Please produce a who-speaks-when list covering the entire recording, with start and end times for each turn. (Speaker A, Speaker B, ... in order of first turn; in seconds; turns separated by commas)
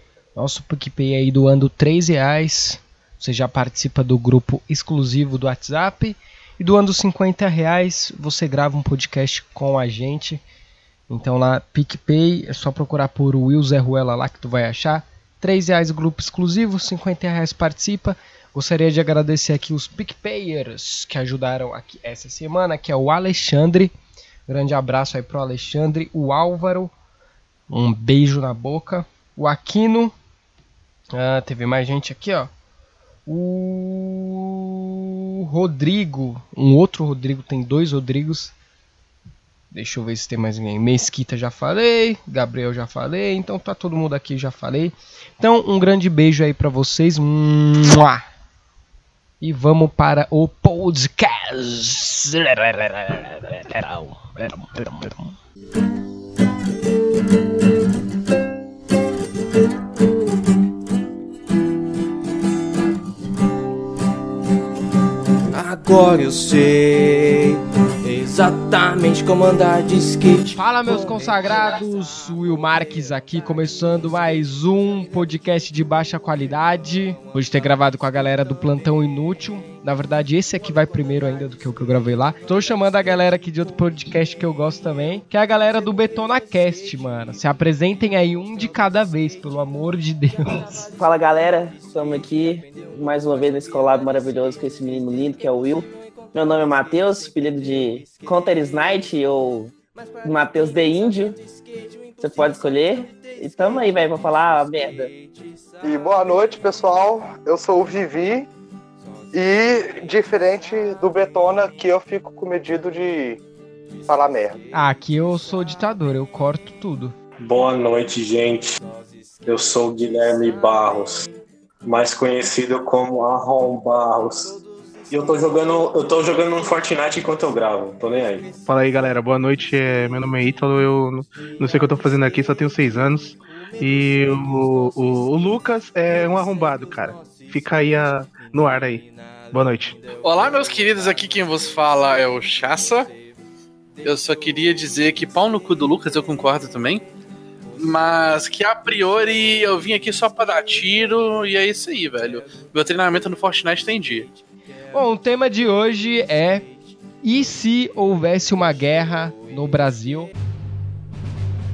Speaker A: 0.3-10.4, Speaker A: 11.1-23.9, Speaker A: 24.5-26.9, Speaker A: 27.7-30.1, Speaker A: 31.1-32.5, Speaker A: 33.2-38.5, Speaker A: 39.7-48.2, Speaker A: 49.4-55.3, Speaker B: 65.5-71.8, Speaker A: 70.5-90.9, Speaker C: 91.0-101.4, Speaker C: 102.2-105.1, Speaker D: 105.8-108.5, Speaker D: 109.3-113.4, Speaker D: 114.1-114.6, Speaker A: 114.7-117.1, Speaker E: 117.4-118.7, Speaker E: 119.4-121.2, Speaker E: 121.8-124.5, Speaker E: 125.1-128.5, Speaker F: 128.7-140.0, Speaker G: 140.2-143.1, Speaker G: 144.0-147.1, Speaker G: 147.8-154.3, Speaker A: 154.9-156.7, Speaker A: 157.2-160.3